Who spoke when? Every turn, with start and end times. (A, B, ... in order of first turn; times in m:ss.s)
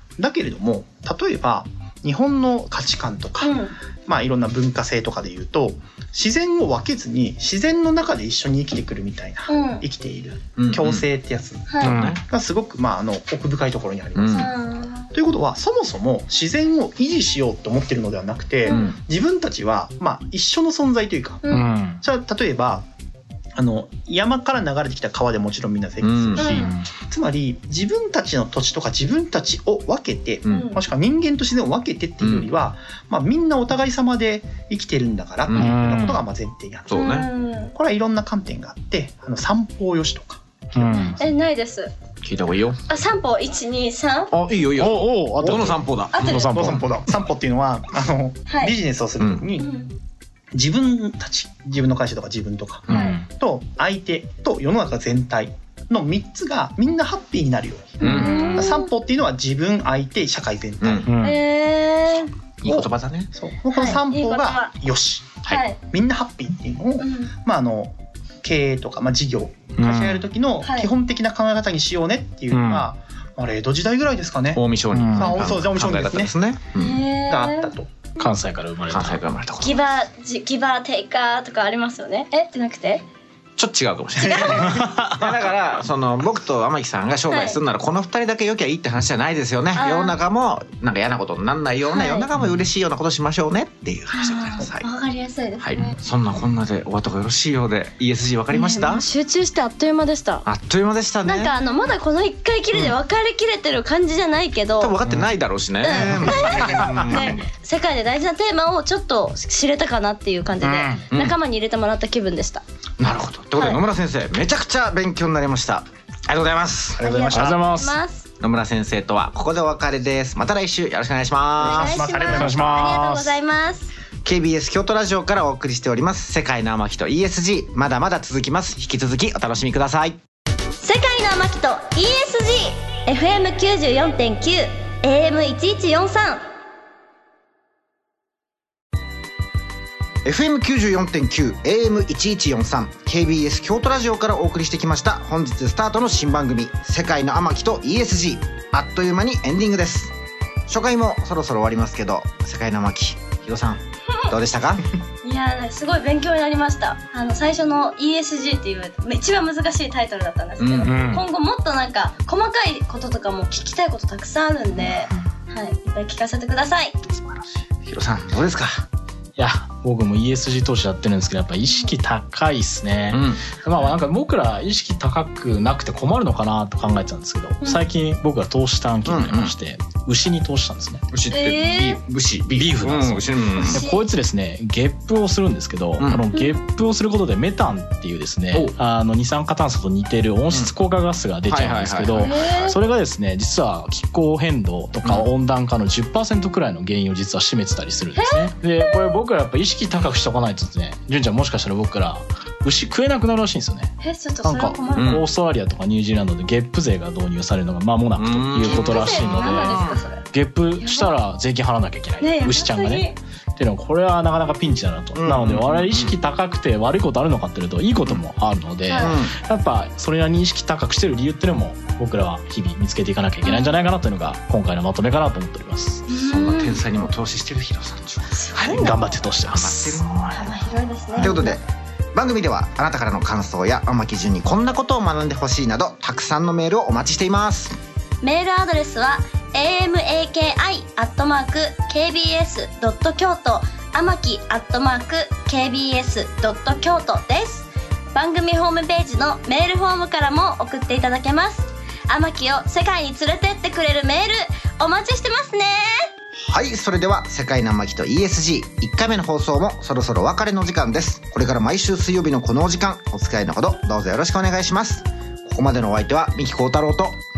0:00.2-0:21.4 A
0:03.4-0:03.7 B
0:09.5-0:09.8 B
0:10.6-0:11.0 C
0:11.7-0:11.9 B
0:11.8-0:12.2 C
0:11.8-0:12.2 D
0:14.1-0:14.5 C
0:14.3-0:15.1 B
0:18.7-0:19.0 C
0:21.5-0:22.0 D
0:22.0-0:22.8 A
0:23.6-0:37.1 A
0:26.0-0:26.6 C
0:26.4-0:26.7 B
0:26.6-0:26.8 D
0:30.4-0:30.7 C
0:30.5-0:30.8 B
0:32.2-0:32.5 C
0:35.4-0:35.7 C
0:35.6-0:36.2 D
0:36.9-0:37.3 C
0:36.9-0:37.7 B
0:37.7-0:41.1 A
0:40.7-0:41.2 D
0:40.9-0:41.9 B
0:42.2-0:42.8 C
0:42.9-0:44.3 B
0:44.3-0:46.8 C
0:44.8-0:46.9 D
0:46.1-0:46.5 B
0:46.5-0:49.8 A
0:48.5-0:48.7 B
0:49.6-0:49.9 B
0:50.5-1:01.1 A
0:52.9-0:53.2 C
0:52.9-0:53.2 D
0:52.9-0:53.2 B
0:58.0-0:58.9 B
0:58.0-0:58.6 C
0:58.3-0:58.7 D
1:00.8-1:01.1 C
1:01.0-1:01.4 D
1:01.2-1:02.3 B
1:02.6-1:03.3 C
1:02.6-1:16.3 A
1:03.7-1:04.7 B
1:05.5-1:05.8 B
1:07.0-1:07.3 B
1:09.8-1:10.2 D
1:10.6-1:10.9 B
1:12.5-1:12.9 D
1:14.5-1:17.0 C
1:14.9-1:15.4 D
1:16.7-1:17.7 B
1:17.1-1:17.9 A
1:18.2-1:19.2 D
1:18.9-1:19.8 C
1:19.6-1:23.0 B
1:23.6-1:34.9 C
1:24.2-1:24.8 B
1:24.6-1:25.4 D
1:27.3-1:27.6 B
1:29.8-1:30.1 B
1:31.9-1:32.3 B
1:34.1-1:35.9 B
1:35.6-1:39.0 C
1:38.5-1:40.4 B
1:40.4-1:41.5 C
1:41.2-1:45.0 B
1:44.8-1:47.5 C
1:45.8-1:52.6 B
1:46.0-1:47.1 D
1:50.6-1:51.0 D
1:51.1-1:51.4 C
1:53.0-1:57.6 C
1:53.6-1:53.8 B
1:57.0-1:57.3 A
1:57.0-1:58.3 B
1:57.3-1:58.0 D
1:58.4-2:02.0 C
2:01.6-2:03.9 B
2:01.6-2:02.8 A
2:01.7-2:03.4 D
2:04.2-2:10.2 C
2:10.8-2:16.4 B
2:20.2-2:30.1 C
2:30.7-2:34.8 C
2:34.1-2:34.3 B
2:35.2-2:46.9 B
2:40.6-2:40.9 C
2:40.8-2:41.2 D
2:47.0-2:48.8 C
2:49.4-3:01.0 D
2:53.1-2:53.5 C
2:59.0-2:59.5 C
3:01.1-3:03.8 C
3:01.3-3:02.0 B
3:02.5-3:46.0 D
3:03.6-3:04.0 B
3:06.0-3:06.3 C
3:06.3-3:06.6 B
3:11.5-3:12.8 C
3:12.1-3:12.7 B
3:15.0-3:15.3 C
3:18.2-3:19.1 B
3:24.0-3:25.2 B
3:25.0-3:25.2 C
3:28.2-3:30.0 C
3:28.6-3:30.2 B
3:30.8-3:31.1 B
3:32.2-3:33.2 B
3:35.1-3:36.2 C
3:38.9-3:39.2 B
3:39.0-3:39.3 C
3:43.4-3:43.8 B
3:46.1-3:46.8 B
3:46.2-3:51.6 C
3:48.3-3:49.1 B
3:48.7-3:50.2 D
3:50.3-3:51.6 B
3:52.1-3:57.8 C
3:58.2-4:16.1 B
4:16.5-4:27.2 C